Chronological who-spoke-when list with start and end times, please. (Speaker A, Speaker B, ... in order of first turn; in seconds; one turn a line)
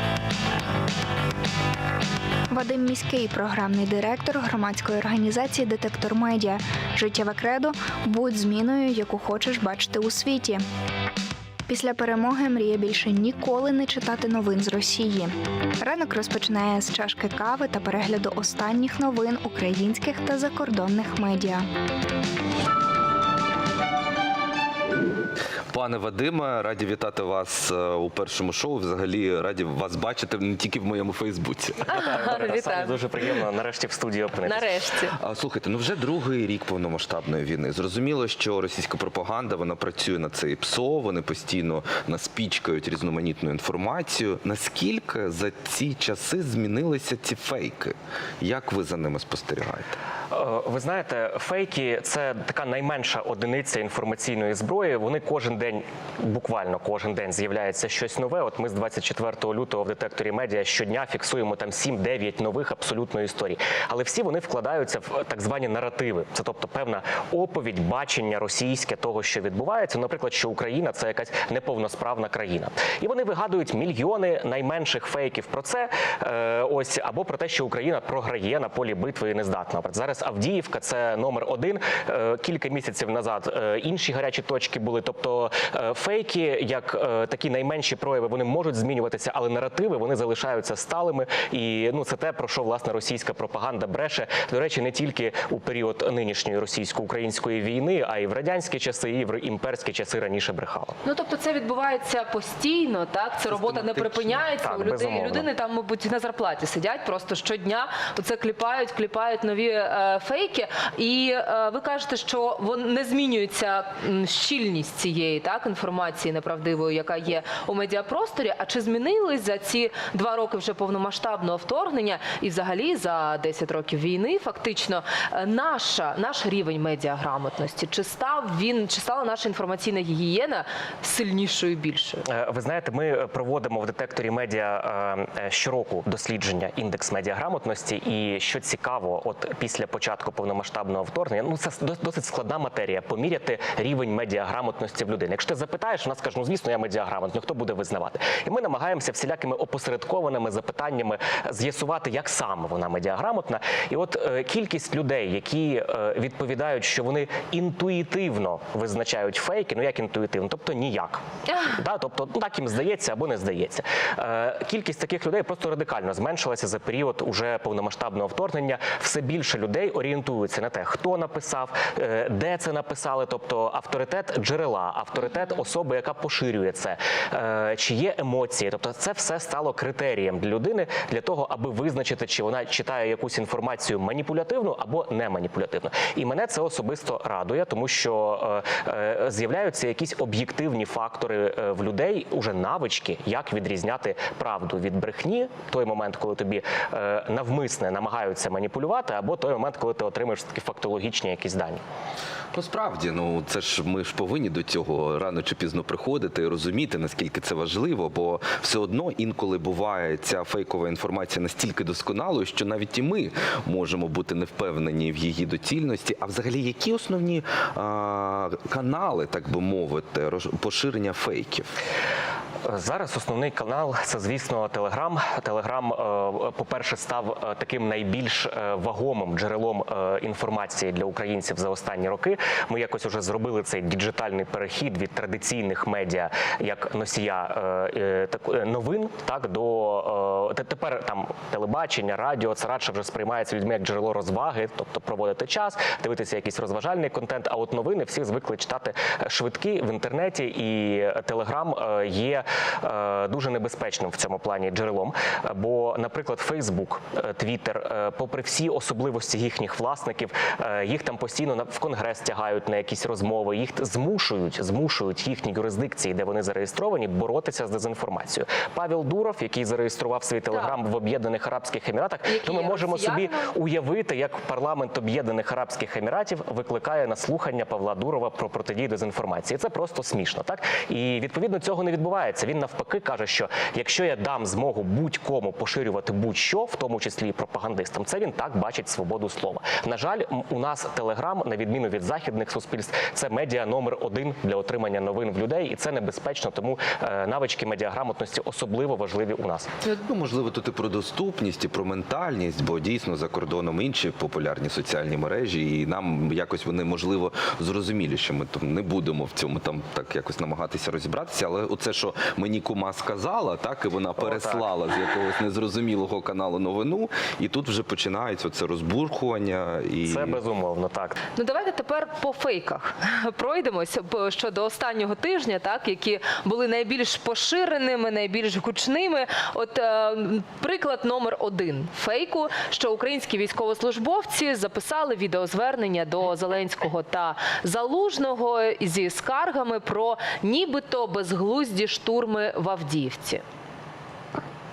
Speaker A: 2.5-10.6
Speaker A: 11.7-21.6
Speaker B: 25.7-32.0
Speaker C: 31.9-33.4
Speaker D: 31.9-34.7
Speaker C: 34.4-35.1
Speaker B: 35.2-50.0
Speaker D: 50.3-101.0
Speaker C: 101.0-132.3
Speaker B: 103.5-104.3
Speaker D: 104.6-105.5
Speaker D: 132.3-201.8
Speaker C: 161.5-161.8
Speaker B: 202.5-221.7
Speaker D: 222.7-299.7
Speaker C: 270.5-270.8
Speaker C: 272.2-273.5
Speaker B: 299.8-320.4
Speaker D: 314.2-314.7
Speaker D: 320.0-321.2
Speaker C: 321.4-343.4